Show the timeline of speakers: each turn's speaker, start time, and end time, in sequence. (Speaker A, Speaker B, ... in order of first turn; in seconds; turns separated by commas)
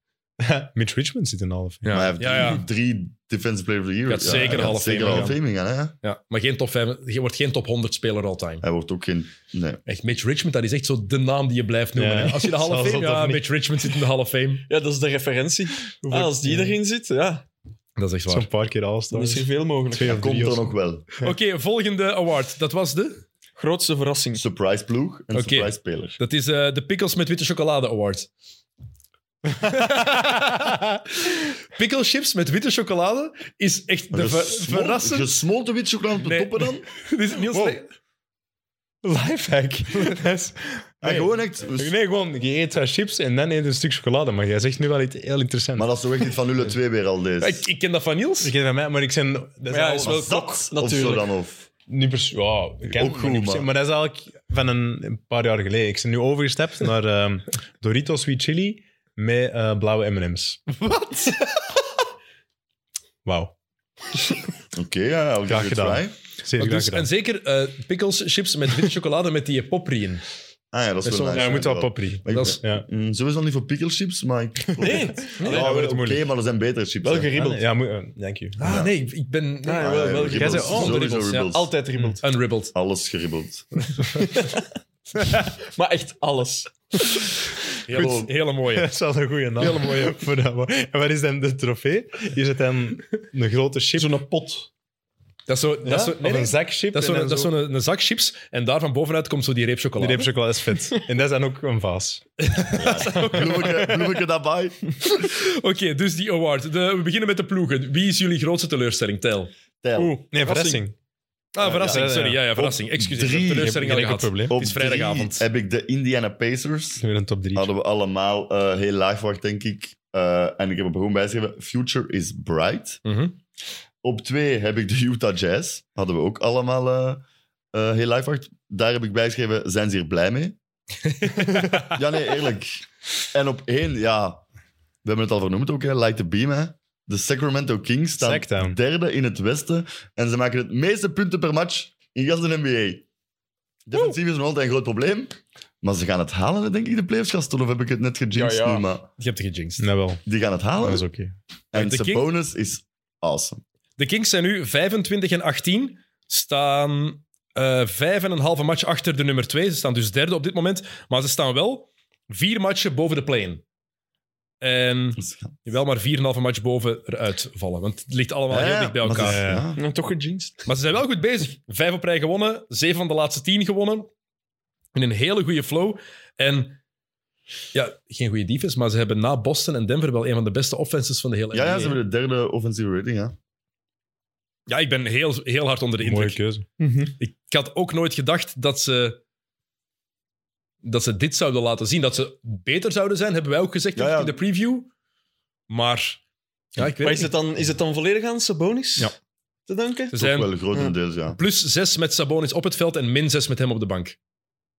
Speaker A: 0.4-2.0, Speaker B: 1.8-2.6, Speaker C: 1.9-5.9, Speaker B: 4.1-5.4, Speaker A: 4.3-5.3, Speaker B: 6.0-8.6, Speaker C: 8.6-9.8, Speaker B: 9.8-14.7, Speaker A: 11.9-13.4, Speaker D: 14.7-17.4, Speaker A: 16.0-16.8, Speaker B: 18.0-18.5, Speaker A: 18.3-20.7, Speaker D: 19.1-20.3, Speaker C: 20.0-21.1, Speaker B: 21.2-23.2, Speaker D: 23.6-24.4, Speaker C: 24.4-26.2, Speaker B: 25.3-28.3, Speaker A: 29.5-31.0, Speaker B: 29.7-30.3, Speaker B: 31.7-35.4, Speaker C: 34.1-36.9, Speaker B: 36.2-37.9, Speaker A: 37.5-37.8, Speaker A: 39.0-45.9, Speaker C: 41.0-41.9, Speaker C: 45.8-47.6, Speaker B: 47.4-48.5, Speaker A: 48.4-50.3, Speaker D: 49.7-51.3, Speaker C: 50.0-51.6, Speaker A: 51.9-60.9, Speaker C: 52.9-53.7, Speaker A: 63.2-63.5, Speaker C: 64.7-66.1, Speaker A: 65.5-67.1, Speaker B: 66.5-70.2, Speaker C: 70.7-77.3, Speaker B: 71.0-71.7, Speaker A: 71.3-72.8, Speaker B: 72.3-72.6, Speaker D: 74.8-75.9, Speaker A: 74.8-76.2, Speaker D: 77.0-77.6, Speaker A: 77.3-78.6, Speaker B: 78.6-80.0, Speaker C: 78.6-78.9, Speaker D: 79.6-82.2, Speaker C: 79.8-81.7, Speaker A: 80.3-81.1, Speaker B: 80.7-81.6, Speaker B: 82.2-82.7, Speaker C: 82.7-83.8, Speaker D: 84.2-84.6, Speaker D: 85.7-87.3, Speaker B: 87.8-88.9, Speaker C: 87.9-88.3, Speaker A: 88.7-94.2, Speaker B: 89.6-90.1, Speaker D: 94.0-94.7, Speaker B: 95.5-100.3, Speaker A: 95.8-97.5, Speaker A: 100.0-102.3, Speaker B: 102.4-104.0, Speaker C: 102.7-105.2, Speaker B: 105.2-109.5, Speaker C: 109.8-110.2, Speaker D: 110.0-110.8, Speaker A: 110.3-110.9, Speaker B: 111.5-115.5, Speaker C: 111.6-113.8, Speaker A: 111.7-112.5, Speaker A: 113.5-114.5, Speaker C: 114.5-117.0, Speaker A: 117.0-117.7, Speaker C: 117.5-123.0, Speaker B: 123.0-123.3, Speaker C: 124.0-130.6, Speaker B: 131.1-131.9, Speaker C: 131.7-134.4, Speaker C: 135.0-143.0, Speaker A: 138.2-138.8, Speaker C: 143.8-149.1, Speaker D: 148.3-148.9, Speaker B: 149.2-149.8, Speaker A: 149.8-150.2, Speaker C: 150.2-151.0, Speaker A: 150.8-151.3, Speaker C: 151.7-153.6, Speaker B: 151.7-152.3, Speaker B: 154.0-163.6, Speaker B: 164.6-169.5, Speaker C: 165.2-165.7, Speaker C: 168.5-169.8, Speaker A: 169.1-169.7, Speaker D: 169.8-170.6, Speaker B: 170.7-174.1, Speaker B: 174.9-176.8, Speaker B: 177.7-182.0, Speaker C: 181.5-183.3, Speaker B: 184.7-186.4, Speaker A: 186.0-186.7, Speaker D: 186.8-187.2, Speaker B: 187.2-189.2, Speaker B: 190.8-194.9, Speaker C: 193.9-194.4, Speaker B: 195.7-196.2, Speaker B: 196.8-197.3, Speaker D: 197.0-199.1, Speaker D: 199.7-200.1, Speaker B: 200.1-200.5, Speaker C: 200.1-201.4, Speaker B: 201.3-204.2